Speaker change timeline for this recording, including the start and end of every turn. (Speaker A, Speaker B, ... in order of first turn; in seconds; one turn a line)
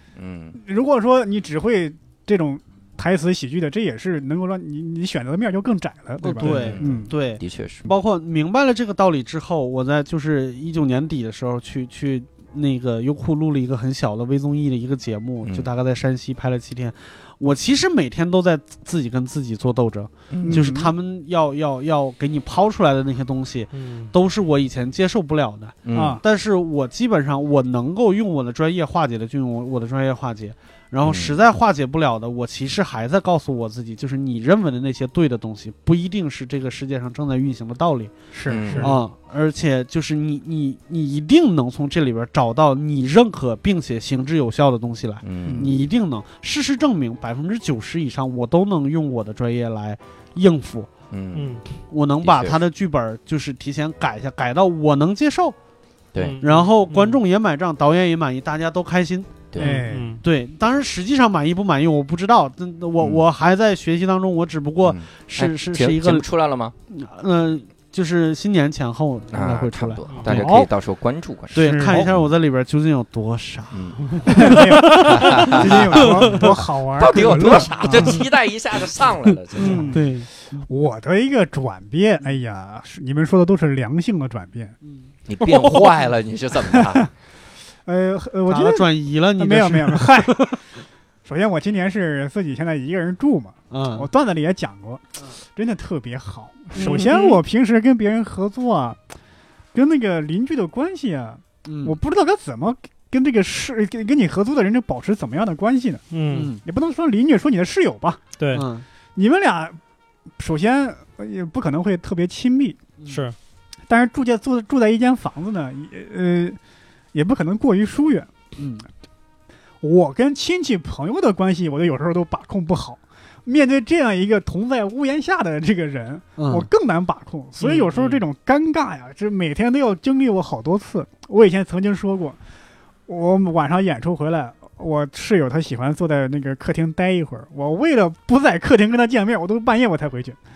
Speaker A: 0.1-0.6
Speaker B: 0.5-7.1
Speaker C: 6.2-38.1
Speaker A: 6.4-7.9
Speaker A: 15.4-15.7
Speaker A: 20.3-20.7
Speaker B: 20.4-20.9
Speaker D: 23.7-24.1
Speaker A: 25.8-26.2
Speaker B: 25.9-26.2
Speaker A: 31.0-31.4
Speaker B: 38.3-39.0
Speaker A: 38.5-39.0
Speaker C: 38.8-50.9
Speaker A: 45.2-45.7
Speaker B: 45.5-45.8
Speaker A: 51.1-51.6
Speaker D: 51.3-51.6
Speaker C: 51.9-55.5
Speaker A: 52.2-52.6
Speaker A: 56.1-56.4
Speaker D: 56.2-57.2
Speaker C: 56.4-59.5
Speaker A: 59.5-59.8
Speaker B: 59.6-60.2
Speaker D: 59.6-60.2
Speaker C: 60.2-66.2
Speaker A: 63.0-63.2
Speaker A: 64.8-66.7
Speaker C: 66.9-70.0
Speaker A: 69.3-72.2
Speaker D: 70.1-70.4
Speaker B: 70.2-70.7
Speaker C: 71.5-74.7
Speaker B: 71.5-72.0
Speaker A: 73.7-76.4
Speaker D: 74.1-75.5
Speaker B: 74.3-78.2
Speaker C: 76.0-76.4
Speaker A: 77.0-80.0
Speaker C: 79.6-80.6
Speaker B: 79.6-84.8
Speaker C: 84.8-85.1
Speaker A: 85.3-87.1
Speaker D: 85.4-85.8
Speaker B: 86.7-87.1
Speaker B: 87.8-90.5
Speaker C: 88.5-90.6
Speaker B: 91.2-99.0
Speaker C: 93.7-94.1
Speaker C: 96.8-97.4
Speaker B: 99.7-106.0
Speaker C: 101.6-102.0
Speaker D: 106.1-106.5
Speaker C: 106.3-106.6
Speaker B: 106.6-108.2
Speaker D: 108.4-108.7
Speaker C: 108.5-108.9
Speaker B: 109.1-109.8
Speaker B: 110.4-112.8
Speaker D: 113.0-113.3
Speaker B: 113.9-116.6
Speaker B: 117.1-118.3
Speaker C: 118.6-118.8
Speaker B: 119.8-132.4
Speaker C: 126.4-126.7
Speaker D: 127.6-128.2
Speaker B: 133.1-140.4